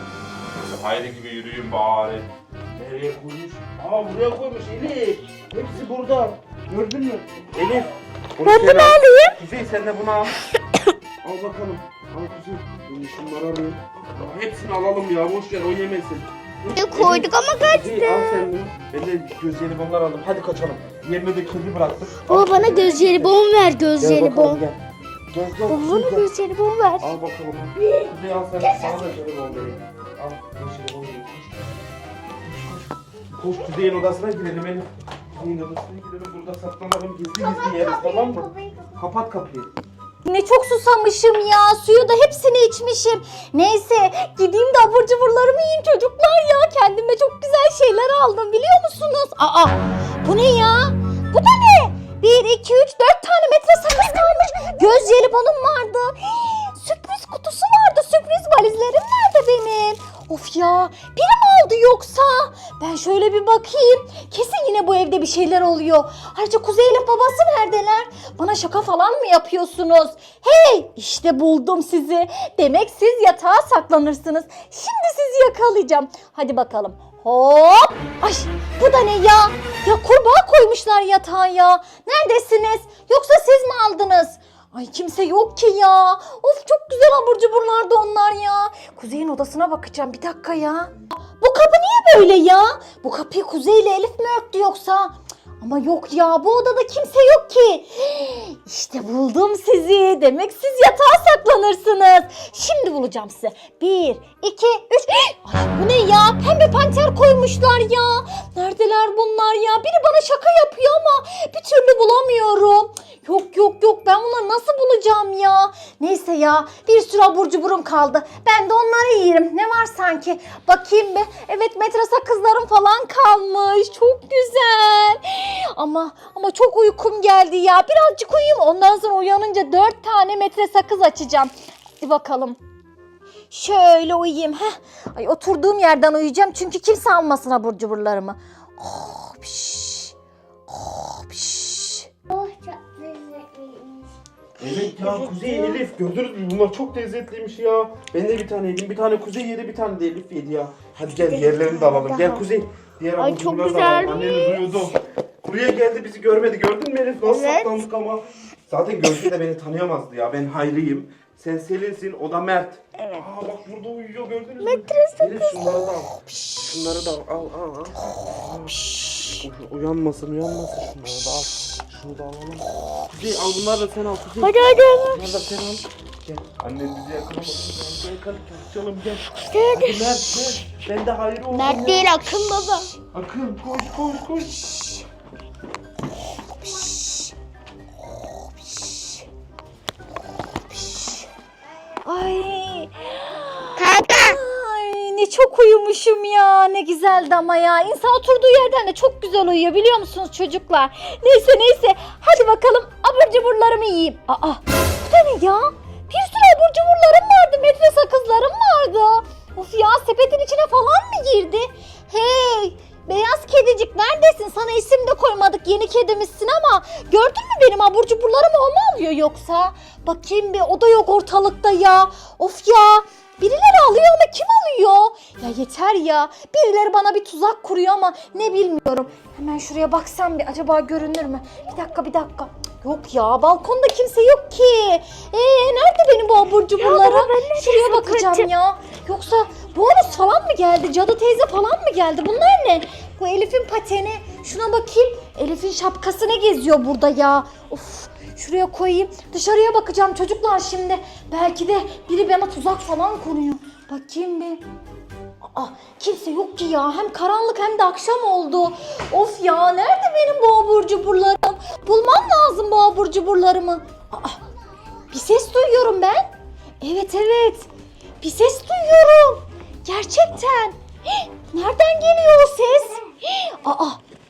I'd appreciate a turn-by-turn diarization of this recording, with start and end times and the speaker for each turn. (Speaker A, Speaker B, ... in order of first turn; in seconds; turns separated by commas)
Speaker A: 0.6-10.4, Speaker B: 8.4-9.3, Speaker A: 11.2-23.4, Speaker C: 16.7-18.5, Speaker C: 22.2-24.6, Speaker A: 24.0-26.3, Speaker C: 25.7-27.1, Speaker A: 27.0-31.8, Speaker C: 27.8-28.1, Speaker C: 28.6-29.1, Speaker A: 32.5-32.8, Speaker A: 33.4-39.7, Speaker C: 37.4-39.0, Speaker B: 40.2-132.6, Speaker B: 133.5-140.1, Speaker B: 140.7-142.1, Speaker C: 142.3-144.1, Speaker A: 144.6-182.1, Speaker C: 144.7-145.8, Speaker C: 151.3-152.4, Speaker C: 153.2-154.8, Speaker C: 157.2-157.8, Speaker C: 164.6-165.7, Speaker C: 174.4-175.3, Speaker C: 179.4-180.6, Speaker C: 181.5-182.9, Speaker A: 183.1-185.0, Speaker B: 186.7-187.1, Speaker B: 188.6-189.2, Speaker B: 190.7-191.3, Speaker B: 192.1-254.6, Speaker C: 193.8-194.4, Speaker C: 236.8-238.5, Speaker B: 255.5-264.4, Speaker B: 265.1-267.7, Speaker B: 268.2-274.0